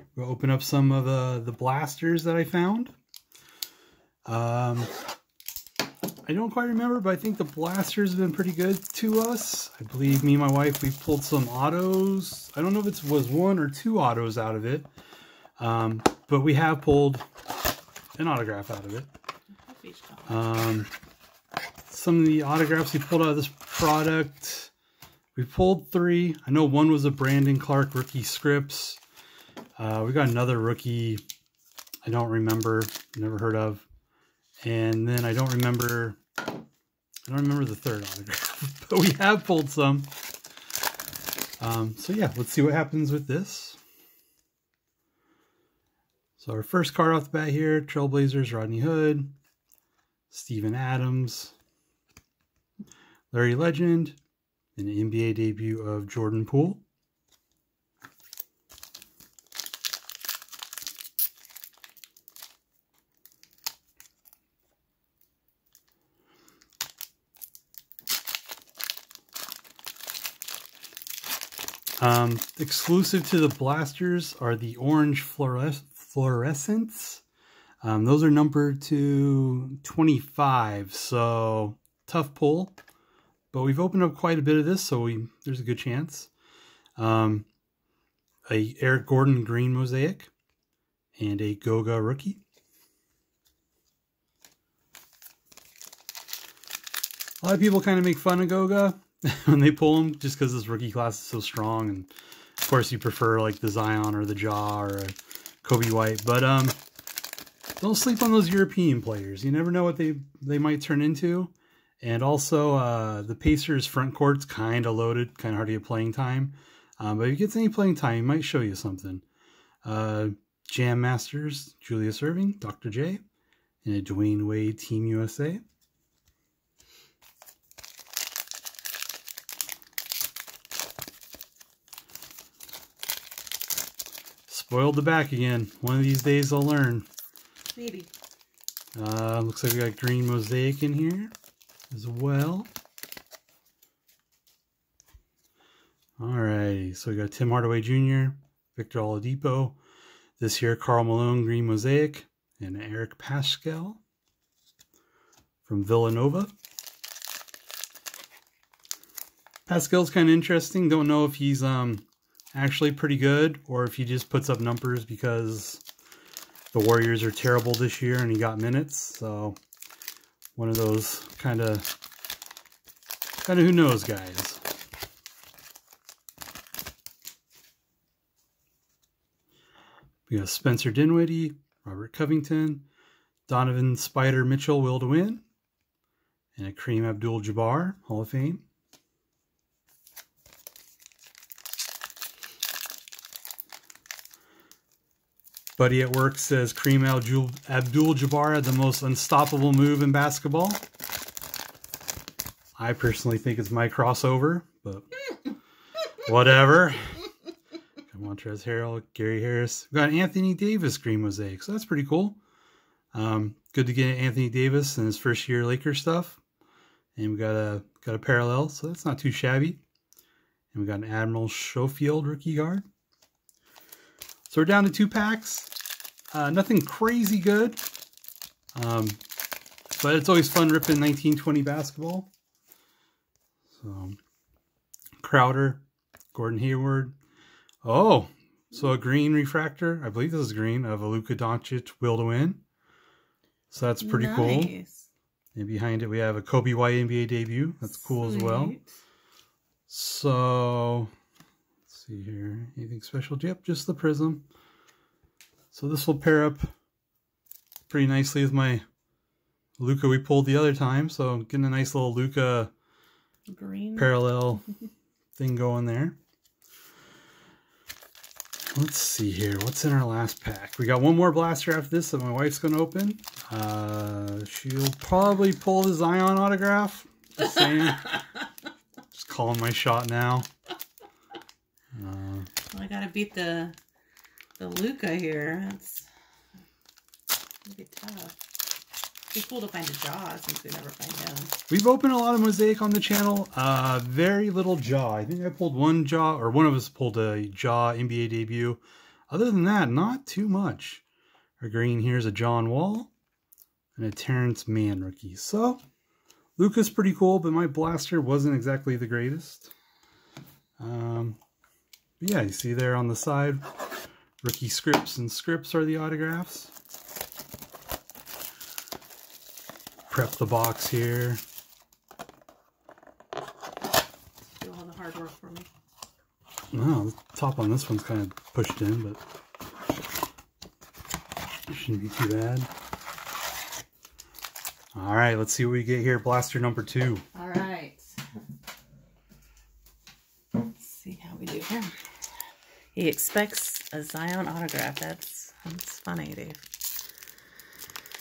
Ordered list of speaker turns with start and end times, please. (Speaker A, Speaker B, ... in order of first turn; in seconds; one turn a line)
Speaker A: 0.1-2.9
Speaker A: 4.3-4.9
Speaker A: 6.3-14.9
Speaker A: 15.6-17.2
Speaker A: 18.2-19.1
Speaker B: 19.6-20.4
Speaker A: 20.3-20.9
Speaker A: 21.9-24.7
Speaker A: 25.4-29.0
Speaker A: 29.8-31.2
Speaker A: 32.0-33.9
Speaker A: 34.6-36.2
Speaker A: 37.3-40.1
Speaker A: 41.6-43.8
Speaker A: 46.4-49.4
Speaker A: 50.3-51.5
Speaker A: 53.3-54.2
Speaker A: 54.8-56.8
Speaker A: 72.0-77.2
Speaker A: 77.8-82.8
Speaker A: 83.5-86.3
Speaker A: 87.0-87.5
Speaker A: 88.5-90.3
Speaker A: 91.2-92.4
Speaker A: 97.4-106.8
Speaker A: 107.8-119.2
Speaker A: 119.8-123.2
Speaker A: 123.8-125.6
Speaker A: 134.5-137.1
Speaker B: 137.8-138.1
Speaker A: 138.9-141.3
Speaker A: 141.9-142.7
Speaker A: 146.2-149.8
Speaker A: 150.4-154.0
Speaker A: 155.6-156.5
Speaker A: 159.7-165.8
Speaker A: 166.7-169.6
Speaker A: 170.6-171.8
Speaker A: 173.4-174.6
Speaker A: 180.3-182.8
Speaker A: 183.5-185.4
Speaker A: 186.6-188.7
Speaker A: 195.8-200.8
Speaker A: 202.8-205.1
Speaker A: 206.2-207.2
Speaker A: 208.1-212.4
Speaker A: 213.1-216.4
Speaker A: 217.2-219.8
Speaker A: 220.7-222.8
Speaker A: 224.5-225.7
Speaker A: 226.3-227.8
Speaker A: 228.8-229.2
Speaker A: 230.0-232.3
Speaker A: 233.7-234.2
Speaker A: 235.2-237.2
Speaker A: 237.8-242.6
Speaker A: 243.7-244.8
Speaker B: 244.0-245.1
Speaker A: 245.5-248.8
Speaker B: 247.9-248.9
Speaker A: 249.9-251.1
Speaker A: 251.9-254.4
Speaker A: 255.7-256.7
Speaker A: 257.9-258.8
Speaker A: 259.8-262.7
Speaker B: 263.5-264.2
Speaker A: 263.9-264.6
Speaker A: 265.4-266.2
Speaker A: 268.7-278.2
Speaker B: 277.4-278.4
Speaker A: 279.1-280.5
Speaker A: 281.9-282.5
Speaker B: 282.7-283.8
Speaker B: 284.6-286.1
Speaker B: 287.6-288.4
Speaker B: 289.3-291.6
Speaker A: 291.7-301.0
Speaker A: 301.6-303.1
Speaker A: 304.0-305.8
Speaker A: 306.6-309.7
Speaker A: 310.8-311.4
Speaker A: 312.2-313.6
Speaker A: 314.4-316.7
Speaker A: 320.1-321.4
Speaker B: 324.5-325.7
Speaker A: 326.7-329.2
Speaker A: 331.7-332.7
Speaker A: 334.9-337.2
Speaker B: 337.3-338.1
Speaker B: 340.6-341.9
Speaker B: 342.9-346.6